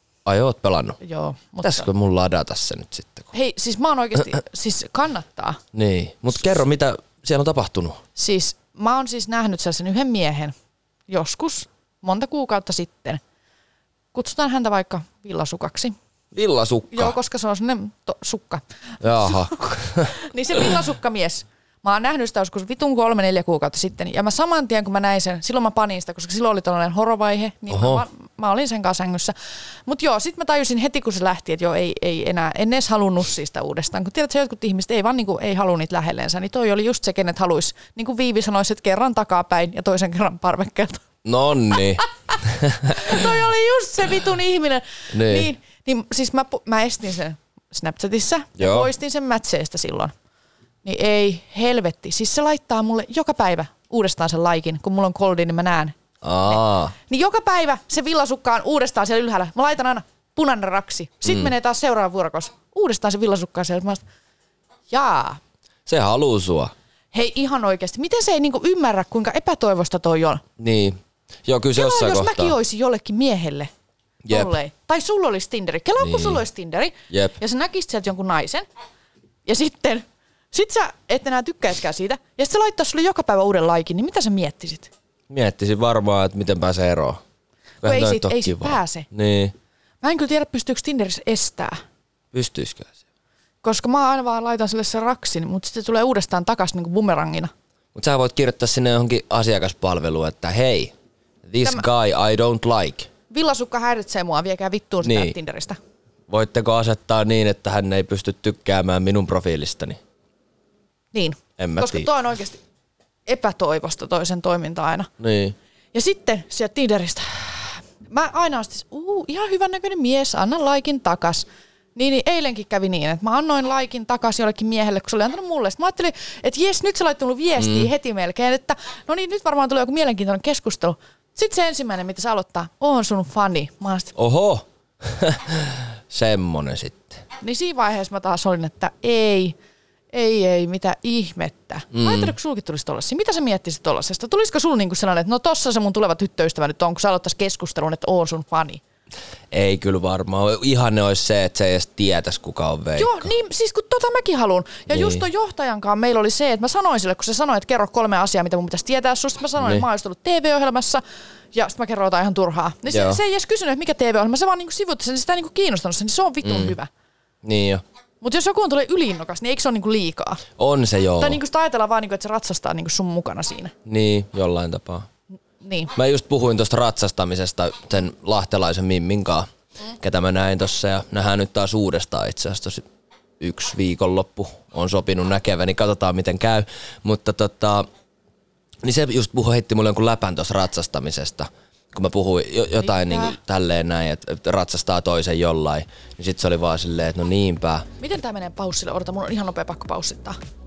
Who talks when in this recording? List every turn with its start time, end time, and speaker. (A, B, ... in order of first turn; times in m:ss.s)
0:00.2-0:01.0 A
0:01.0-0:01.9 B
0:01.6-0:03.3 A
0:03.3-0:05.6 B
0:05.7-0:08.0 A
0:08.2-0:10.5 B
0:11.1-0:13.2 B
0:14.1-0:16.0 B
0:16.3-0:17.2 A
0:16.9-0:29.3 B
0:19.0-0:20.1 A
0:27.7-0:28.0 A
0:29.9-0:41.0 B
0:41.2-0:43.2 A
0:41.7-0:50.1 B
0:45.1-0:45.5 A
0:48.6-0:48.9 A
0:50.8-1:04.0 B
0:56.2-0:56.9 A
1:01.3-1:01.5 A
1:04.9-1:05.4 B
1:05.9-1:06.7 A
1:07.1-1:10.4 B
1:10.6-1:12.6 A
1:11.8-1:13.7 B
1:14.2-1:14.5 A
1:14.3-1:18.7 B
1:16.0-1:16.4 A
1:17.1-1:17.4 A
1:19.5-1:24.9 B
1:25.3-1:27.2 A
1:27.8-1:29.5 A
1:27.8-1:29.1 B
1:30.0-1:31.8 B
1:32.3-1:32.9 A
1:33.6-1:37.5 B
1:38.0-1:40.9 A
1:41.5-1:43.1 A
1:43.3-1:45.8 B
1:45.0-1:45.4 A
1:46.3-1:50.0 A
1:51.1-1:52.6 B
1:51.6-1:52.1 A
1:53.3-1:55.1 B
1:55.2-1:55.6 A
1:55.9-2:14.1 B
2:07.6-2:07.9 A
2:14.2-2:17.2 A
2:17.4-2:19.6 B
2:20.1-2:28.8 B
2:21.9-2:22.3 A
2:29.5-2:33.3 A
2:33.0-2:41.0 B
2:34.9-2:35.2 A
2:39.6-2:39.8 A
2:41.5-2:46.9 B
2:42.9-2:43.2 A
2:46.4-2:46.7 A
2:47.4-2:47.8 A
2:48.2-2:50.4 B
2:50.6-2:51.4 A
2:51.2-2:53.7 B
2:53.8-2:55.1 A
2:55.6-2:55.9 B
2:55.9-2:59.5 A
3:00.0-3:02.9 A
3:03.4-3:07.9 A
3:08.8-3:17.9 A
3:12.8-3:13.4 B
3:18.0-3:20.4 B